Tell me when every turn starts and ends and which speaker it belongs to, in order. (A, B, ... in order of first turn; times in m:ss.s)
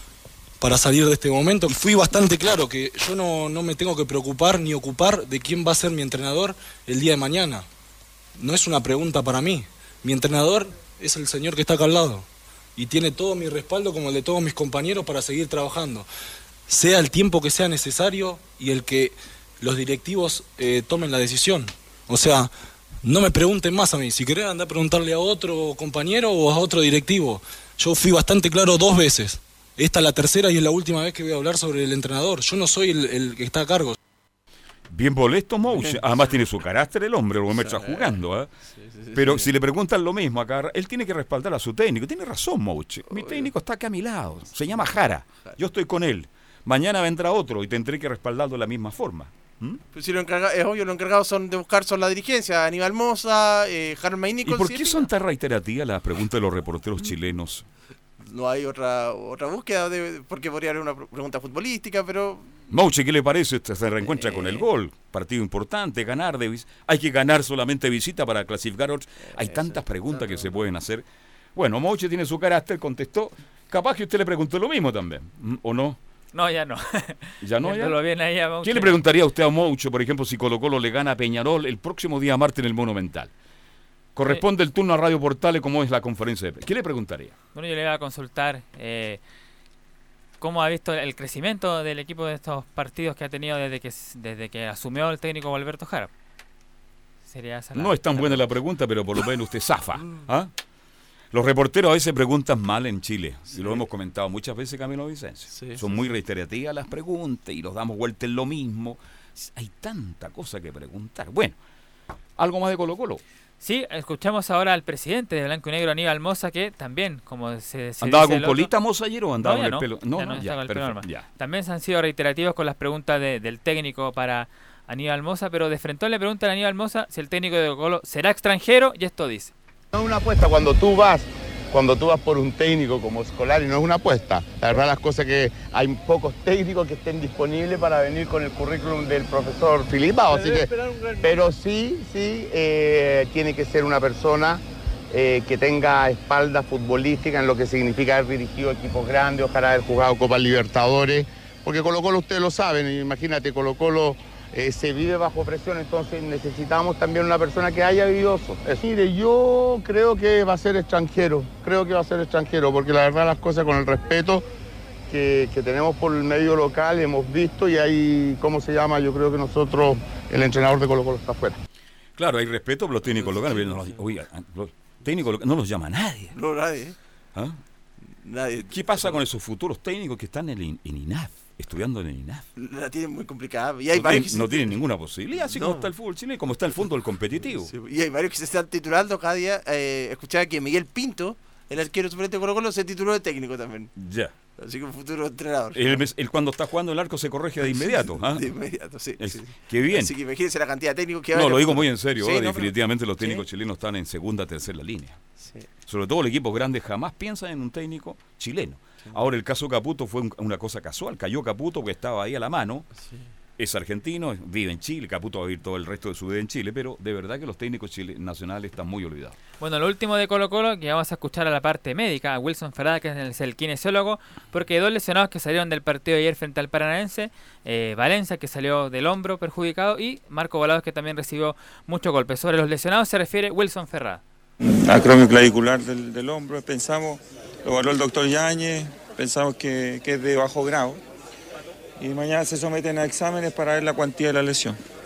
0:00.6-0:07.6 A
0:08.4-0:12.2 A
0:12.8-0:16.1 A
0:16.7-0:22.5 A
0:23.0-0:34.0 A
0:34.9-0:38.5 B
0:35.6-0:36.4 C
0:37.5-0:39.5 C
0:39.1-0:49.8 B
0:43.1-0:43.5 C
0:44.7-0:44.9 C
0:49.9-0:55.1 C
0:54.4-0:57.6 B
0:58.2-1:02.5 C
1:02.7-1:11.0 B
1:04.0-1:04.7 C
1:09.2-1:10.6 C
1:11.5-1:16.0 B
1:16.3-1:19.0 D
1:17.4-1:18.0 B
1:18.6-1:23.3 B
1:24.1-1:27.3 B
1:27.5-1:29.2 D
1:30.4-1:36.1 D
1:37.3-1:38.5 D
1:37.7-1:40.5 B
1:41.3-1:51.6 B
1:43.5-1:43.8 C
1:45.5-1:46.1 C
1:52.4-1:53.2 B
1:53.6-1:58.7 D
1:58.0-2:01.2 B
1:59.4-2:09.5 D
2:09.9-2:44.4 E
2:45.1-2:51.6 E
2:52.2-2:56.4 B
2:53.0-2:54.0 C
2:56.3-2:57.0 C
2:58.2-2:59.2 C
2:58.7-3:02.4 B
3:02.6-3:04.8 C
3:03.9-3:07.7 B
3:05.3-3:05.9 C
3:06.8-3:13.9 C
3:14.0-3:14.3 B
3:14.6-3:16.1 C
3:15.7-3:18.5 B
3:17.6-3:23.4 C
3:19.2-3:20.1 B
3:21.3-3:25.2 B
3:25.4-3:25.7 C
3:25.8-3:32.9 B
3:33.0-3:33.3 C
3:33.6-3:39.4 B
3:39.6-3:54.2 D
3:54.6-4:01.0 F
4:02.0-4:04.8 F